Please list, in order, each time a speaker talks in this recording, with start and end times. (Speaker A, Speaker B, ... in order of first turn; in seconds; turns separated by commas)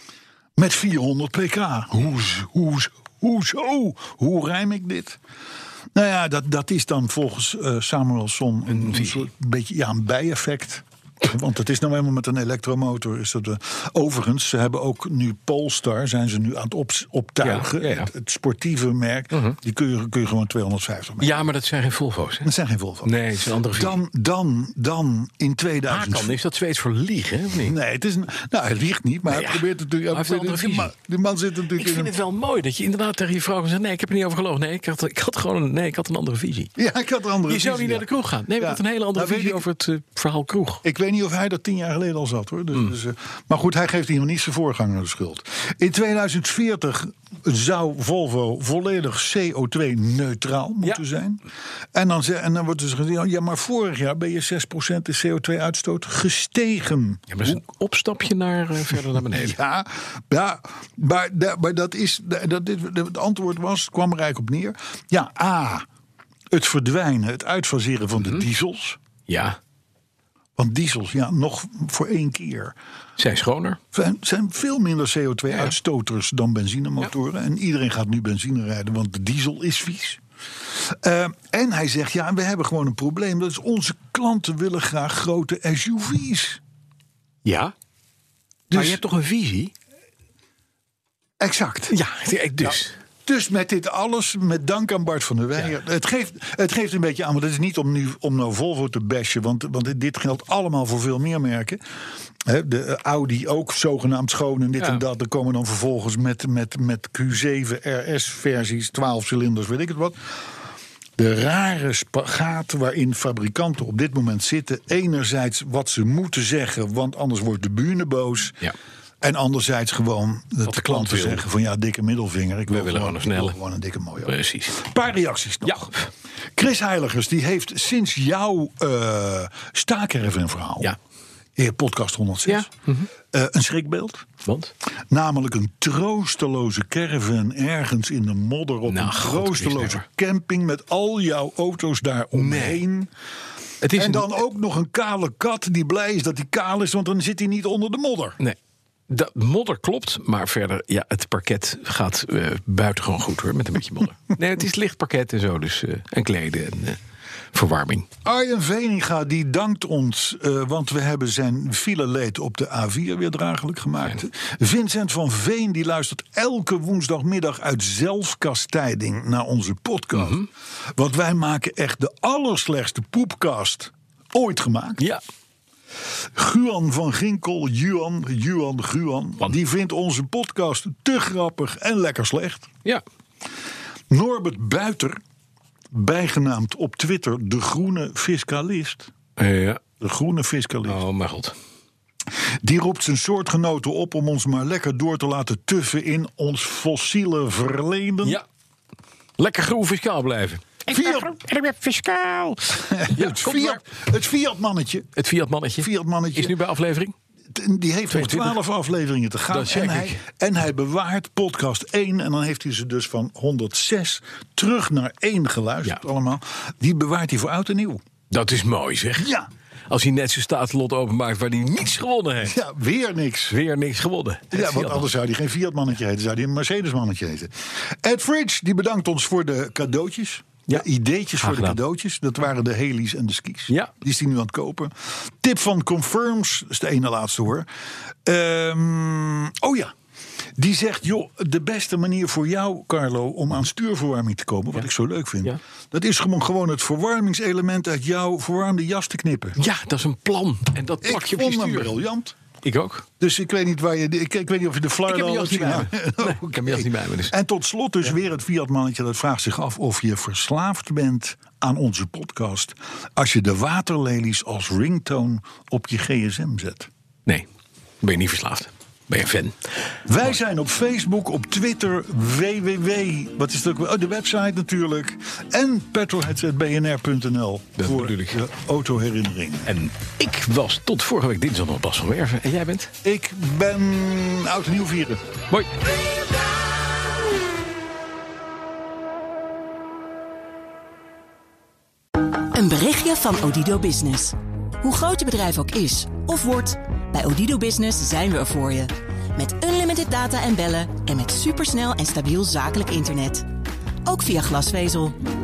Speaker A: 0.6-5.2, Speaker A: 6.0-21.5, Speaker B: 8.7-9.2, Speaker B: 17.4-18.1, Speaker B: 21.2-22.5, Speaker A: 22.4-23.1, Speaker B: 23.0-24.0, Speaker A: 23.7-26.4, Speaker B: 25.9-27.8, Speaker A: 27.6-32.1, Speaker B: 29.3-30.9, Speaker B: 31.7-36.7, Speaker A: 36.8-38.1, Speaker B: 37.5-40.8, Speaker A: 38.6-39.6, Speaker A: 40.8-51.4, Speaker A: 51.9-57.6, Speaker B: 57.3-59.6, Speaker A: 59.1-65.9, Speaker A: 66.5-69.0, Speaker B: 69.3-69.6, Speaker A: 70.6-72.7, Speaker B: 73.2-73.8, Speaker A: 73.9-86.6, Speaker B: 87.5-87.7, Speaker A: 88.7-89.0, Speaker B: 88.7-89.7, Speaker A: 91.4-92.0, Speaker B: 91.9-92.9, Speaker A: 92.6-101.8, Speaker A: 102.4-110.2, Speaker A: 111.2-118.6, Speaker A: 119.2-125.9, Speaker B: 120.7-121.4, Speaker B: 122.7-123.6, Speaker B: 124.2-124.8, Speaker B: 125.6-126.1, Speaker A: 126.6-130.9, Speaker A: 131.6-134.3, Speaker B: 132.5-133.1, Speaker B: 134.4-134.7, Speaker A: 135.1-143.1, Speaker B: 138.9-140.0, Speaker B: 142.3-142.8, Speaker B: 143.8-144.4, Speaker A: 143.9-148.4, Speaker B: 149.1-157.0, Speaker B: 157.5-158.1, Speaker A: 158.2-175.1, Speaker B: 170.1-170.5, Speaker A: 176.2-182.7, Speaker A: 184.1-185.2, Speaker A: 185.9-189.1, Speaker B: 189.4-189.8, Speaker A: 190.0-191.0, Speaker B: 190.8-191.6, Speaker A: 192.6-198.4, Speaker B: 199.4-203.8, Speaker A: 200.9-201.4, Speaker A: 202.7-205.1, Speaker B: 205.2-207.1, Speaker A: 205.8-206.6, Speaker A: 207.5-218.0, Speaker B: 208.1-208.6, Speaker B: 209.5-210.2, Speaker B: 218.3-219.3, Speaker A: 219.2-219.5, Speaker B: 219.9-222.6, Speaker A: 222.4-223.6, Speaker B: 223.5-225.1, Speaker A: 224.5-237.7, Speaker B: 231.4-231.8, Speaker A: 238.2-239.9, Speaker A: 240.6-249.6, Speaker B: 249.6-252.0, Speaker A: 251.0-252.4, Speaker B: 252.6-253.1, Speaker A: 253.2-266.9, Speaker B: 255.1-257.3, Speaker B: 268.0-269.6, Speaker A: 270.1-279.7, Speaker B: 277.8-278.4, Speaker B: 279.7-282.9, Speaker A: 283.0-285.2, Speaker C: 292.5-303.5, Speaker C: 304.1-305.2